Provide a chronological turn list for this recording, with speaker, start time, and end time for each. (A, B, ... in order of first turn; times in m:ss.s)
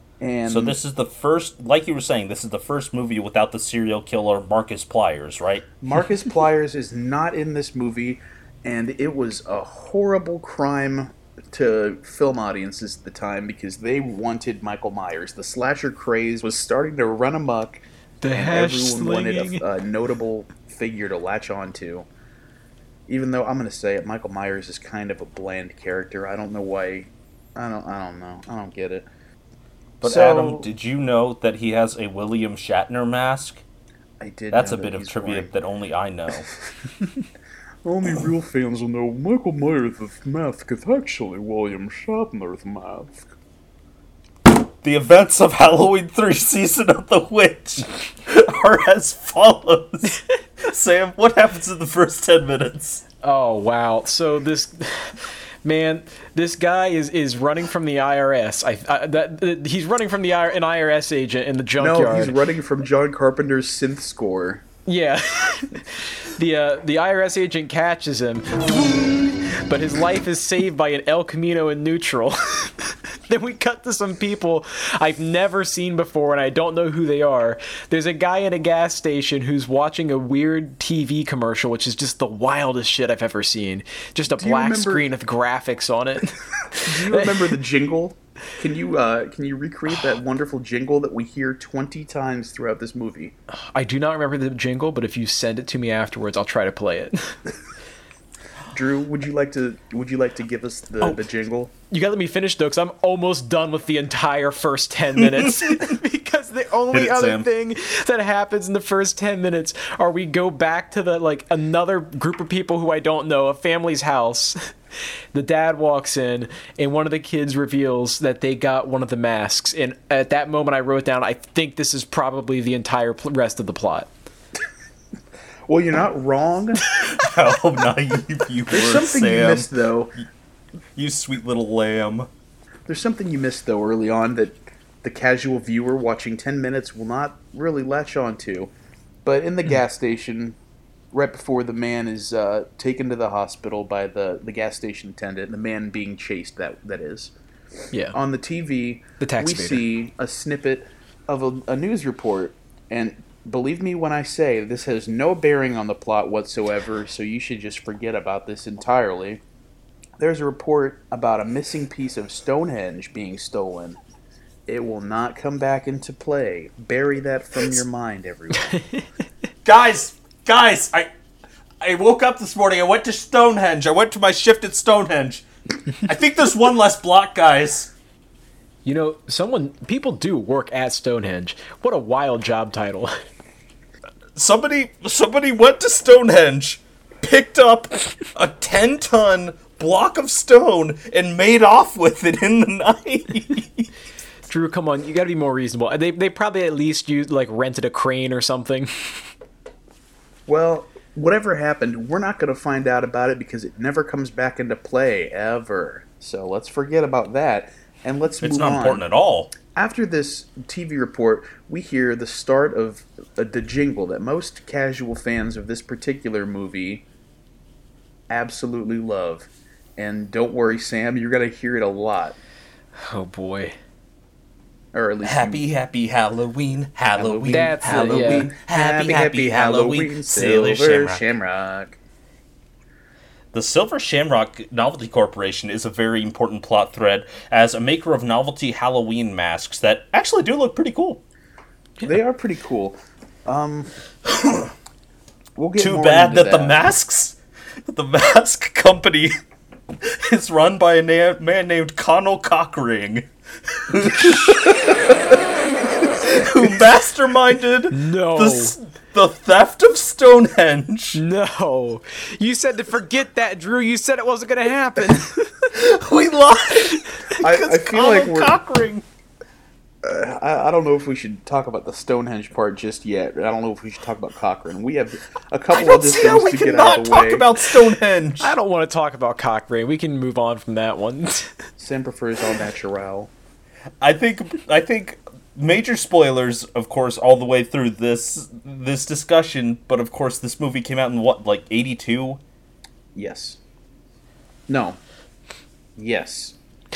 0:00.2-0:00.8 A
0:00.5-0:05.7 B
0:05.8-0:17.8 A
0:18.2-0:19.6 C
0:18.3-0:22.1 A
0:23.1-0:29.1 A
0:30.0-0:33.6 B
0:30.0-0:30.7 A
0:34.2-0:35.5 A
0:34.5-0:36.5 B
0:37.8-0:43.3 A
0:44.8-0:53.0 B
0:53.2-1:02.4 C
1:01.8-1:04.6 A
1:04.9-1:27.4 C
1:24.3-1:25.1 A
1:26.8-1:33.4 A
1:33.5-1:37.4 C
1:38.7-1:41.7 A
1:41.9-1:54.7 C
1:45.6-1:45.8 B
1:46.9-1:47.5 B
1:55.3-2:04.1 C
2:05.7-2:06.8 A
2:07.0-2:09.7 B
2:08.7-2:10.1 A
2:11.0-2:12.3 B
2:12.9-2:18.7 A
2:19.2-2:20.6 A
2:21.1-2:27.3 A
2:27.9-2:28.2 C
2:28.1-2:39.4 A
2:29.2-2:29.8 C
2:40.2-2:44.0 A
2:44.7-2:48.8 A
2:48.7-2:49.0 C
2:49.6-2:51.1 B
2:51.8-2:55.4 B
2:56.0-2:57.9 B
2:58.8-3:03.2 C
3:04.4-3:13.9 B
3:14.5-3:19.3 C
3:20.5-3:29.1 A
3:28.4-3:29.5 B
3:29.7-3:37.0 A
3:38.3-3:42.4 A
3:43.0-3:43.8 C
3:44.9-3:45.7 A
3:45.2-3:51.2 B
3:47.2-3:52.0 A
3:47.5-3:48.5 C
3:53.5-4:01.2 B
4:02.0-4:04.0 A
4:05.6-4:06.8 A
4:05.8-4:09.4 B
4:10.0-4:21.2 B
4:17.9-4:18.8 C
4:21.1-4:25.7 C
4:25.7-4:29.0 B
4:27.0-4:27.4 C
4:27.4-4:28.6 A
4:30.0-4:37.5 A
4:35.7-4:38.6 B
4:38.4-4:41.6 C
4:41.8-4:43.3 A
4:44.0-4:52.4 B
4:53.2-4:53.6 A
4:54.7-4:55.0 A
4:56.0-4:56.6 A